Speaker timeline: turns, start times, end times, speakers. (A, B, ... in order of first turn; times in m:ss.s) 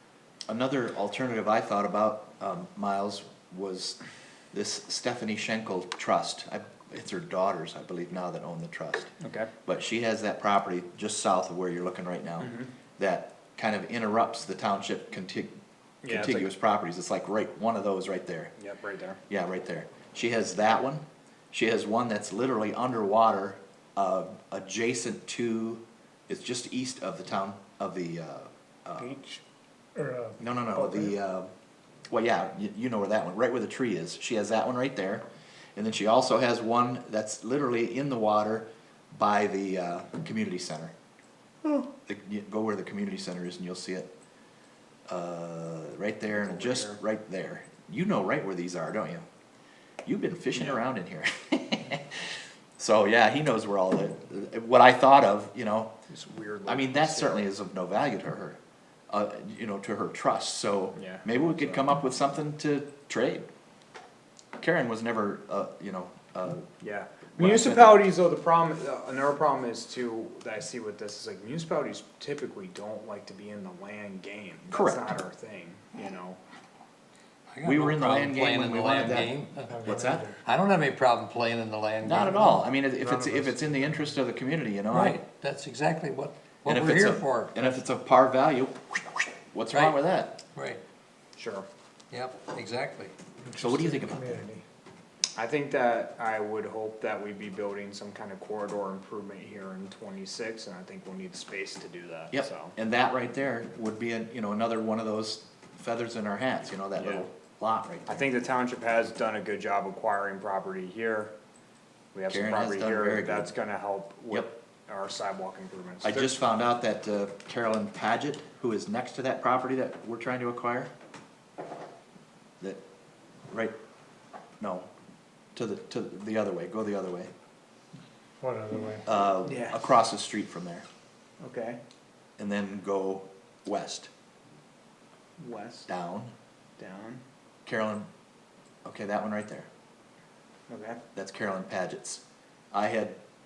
0:00.5-0:04.0 A
0:04.5-0:09.1 A
0:09.2-0:09.5 B
0:09.6-0:15.6 A
0:12.4-0:12.7 B
0:16.0-0:16.5 B
0:16.1-0:18.5 A
0:18.6-0:19.2 B
0:19.3-0:29.1 A
0:29.0-0:29.4 C
0:30.0-0:31.1 C
0:30.4-0:31.5 A
0:32.1-0:35.2 A
0:35.8-0:40.9 A
0:42.1-0:44.1 A
0:45.1-0:49.2 A
0:46.3-0:47.0 B
0:50.0-0:55.9 A
0:50.6-0:50.8 B
0:56.1-0:57.4 B
0:56.7-0:58.6 A
0:59.1-1:03.5 A
1:01.0-1:01.8 B
1:04.6-1:06.7 A
1:06.8-1:16.4 B
1:07.4-1:08.1 A
1:14.7-1:15.2 A
1:17.5-1:22.7 D
1:17.6-1:20.3 A
1:19.7-1:20.4 C
1:22.0-1:25.2 A
1:23.0-1:24.0 C
1:24.9-1:27.5 D
1:26.7-1:30.4 A
1:30.5-1:30.8 D
1:31.4-1:31.7 B
1:32.1-1:33.1 D
1:33.4-1:34.6 C
1:33.6-1:34.4 A
1:35.4-1:42.8 B
1:42.3-1:48.2 A
1:47.0-1:47.3 B
1:48.1-1:51.3 B
1:52.1-1:56.4 B
1:52.3-1:53.5 A
1:56.0-2:00.9 A
2:03.5-2:03.8 A
2:04.6-2:04.9 A
2:05.6-2:07.3 A
2:08.4-2:09.1 C
2:09.1-2:10.8 A
2:09.4-2:09.9 B
2:11.4-2:11.8 B
2:12.4-2:14.1 A
2:15.4-2:15.9 B
2:15.9-2:16.3 A
2:16.8-2:17.2 B
2:17.7-2:18.1 A
2:18.8-2:19.7 A
2:20.7-2:21.0 B
2:21.2-2:23.2 A